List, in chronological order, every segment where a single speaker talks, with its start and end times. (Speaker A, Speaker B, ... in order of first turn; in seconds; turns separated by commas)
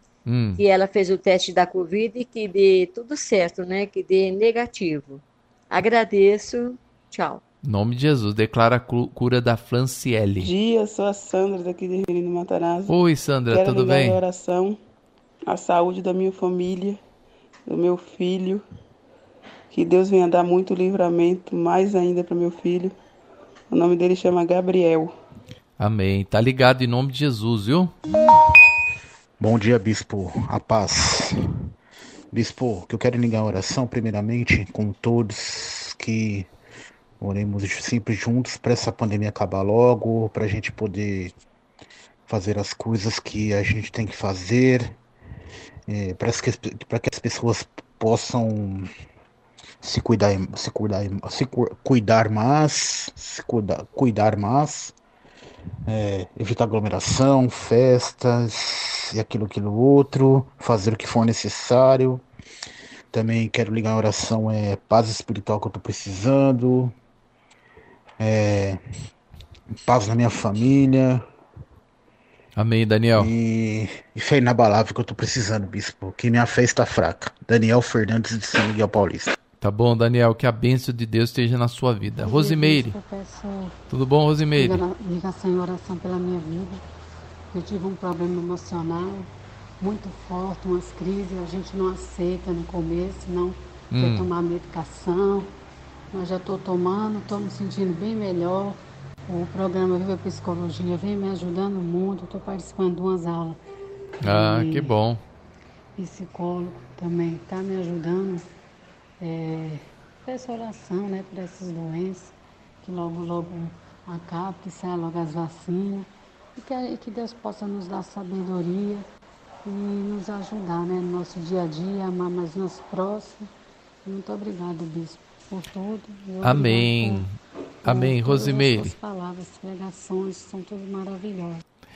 Speaker A: 0.3-0.6, Speaker B: 0.6-7.4, Speaker A: 7.6-10.5, Speaker C: 10.4-12.9, Speaker A: 12.9-14.2, Speaker C: 13.5-14.8, Speaker C: 15.5-17.0, Speaker C: 17.7-18.6, Speaker C: 19.7-22.9, Speaker C: 23.7-25.1, Speaker A: 25.8-27.9, Speaker D: 29.4-31.3, Speaker D: 32.3-36.5, Speaker D: 37.2-41.3, Speaker D: 42.3-44.9, Speaker D: 45.9-48.9, Speaker D: 49.8-54.9, Speaker D: 55.9-62.2, Speaker D: 63.1-66.9, Speaker D: 68.2-68.8, Speaker D: 69.9-71.2, Speaker A: 72.5-73.3, Speaker D: 73.2-79.3, Speaker A: 79.6-82.9, Speaker E: 82.2-83.7, Speaker A: 83.9-84.8, Speaker E: 84.6-86.8, Speaker E: 87.5-89.3, Speaker E: 89.8-95.5, Speaker A: 93.9-94.3, Speaker E: 96.1-103.6, Speaker E: 104.2-104.9, Speaker A: 104.2-105.2, Speaker E: 106.0-108.4, Speaker E: 109.2-119.0, Speaker E: 119.6-123.5, Speaker E: 124.0-127.3, Speaker A: 126.4-128.9, Speaker E: 127.8-131.6